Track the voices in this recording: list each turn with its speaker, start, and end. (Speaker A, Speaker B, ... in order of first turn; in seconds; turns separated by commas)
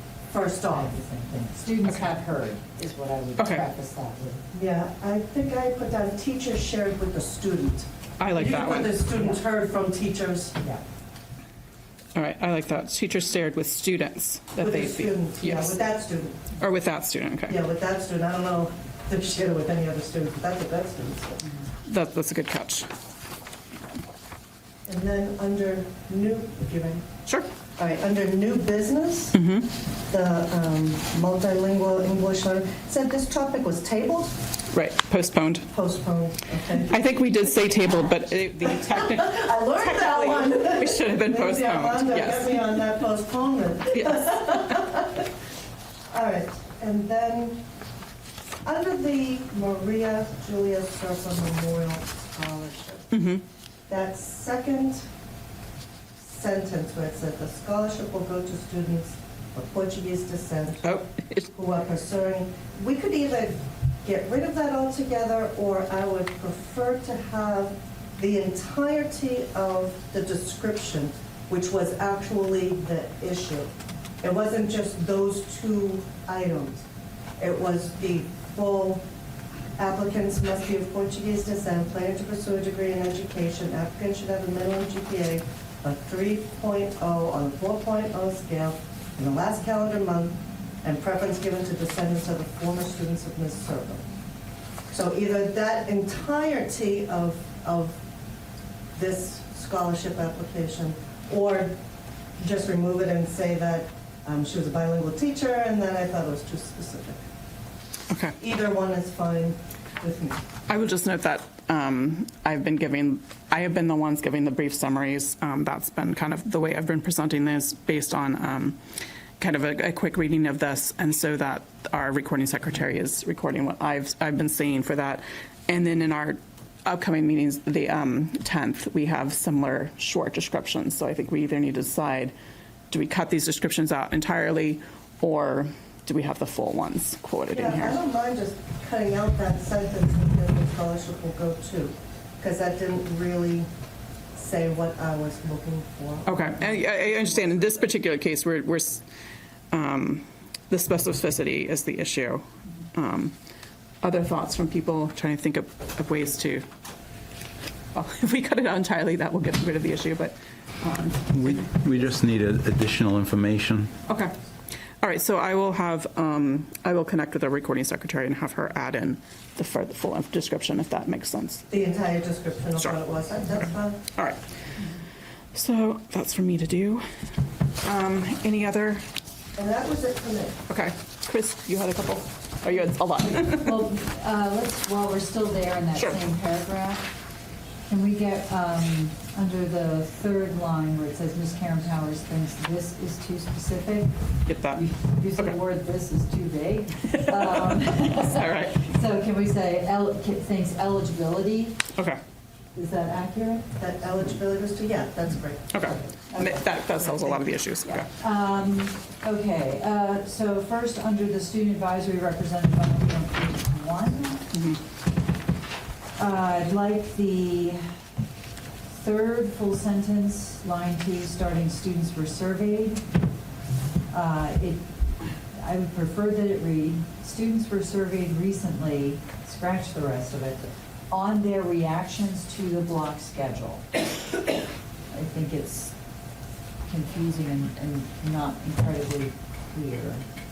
Speaker A: 0.3-0.9, Speaker B: 0.7-4.4, Speaker C: 3.4-3.6, Speaker A: 4.5-10.6, Speaker C: 8.2-9.0, Speaker C: 12.2-15.8, Speaker A: 14.6-16.5, Speaker C: 16.6-17.6, Speaker A: 17.5-21.4, Speaker C: 21.9-22.9, Speaker A: 24.9-27.0, Speaker A: 27.8-29.4, Speaker C: 29.3-29.7, Speaker A: 30.1-34.4, Speaker C: 34.7-35.7, Speaker A: 35.7-36.9, Speaker C: 36.8-42.7, Speaker A: 38.7-45.3, Speaker C: 43.9-44.6, Speaker A: 46.1-47.6, Speaker A: 48.6-53.1, Speaker C: 53.1-53.4, Speaker A: 53.9-55.1, Speaker A: 56.2-76.9, Speaker C: 60.8-61.5, Speaker A: 77.4-79.0, Speaker A: 79.8-94.0, Speaker A: 94.9-98.0, Speaker A: 99.0-101.8, Speaker A: 102.4-107.2, Speaker C: 108.1-108.3, Speaker A: 108.4-110.4, Speaker C: 110.7-118.8, Speaker C: 119.4-132.3, Speaker C: 132.9-138.0, Speaker A: 137.5-143.7, Speaker A: 144.3-146.8, Speaker C: 146.3-149.0, Speaker C: 149.7-153.3, Speaker C: 154.0-156.7, Speaker C: 157.9-161.3, Speaker D: 161.3-163.9, Speaker C: 164.1-164.3, Speaker C: 165.0-171.6, Speaker A: 171.7-174.0, Speaker C: 175.5-177.1, Speaker C: 177.8-179.1, Speaker A: 179.6-180.6, Speaker C: 180.7-183.8, Speaker B: 183.4-187.1, Speaker C: 185.9-186.2, Speaker B: 187.9-194.1, Speaker C: 194.5-194.8, Speaker B: 194.7-201.8, Speaker C: 197.1-198.8, Speaker B: 202.8-203.7, Speaker A: 203.8-205.8, Speaker C: 205.7-208.1, Speaker B: 206.3-214.4, Speaker C: 214.5-214.8, Speaker B: 216.2-217.8, Speaker B: 218.9-223.1, Speaker B: 224.1-224.8, Speaker B: 225.5-234.4, Speaker B: 235.1-235.9, Speaker B: 236.9-240.2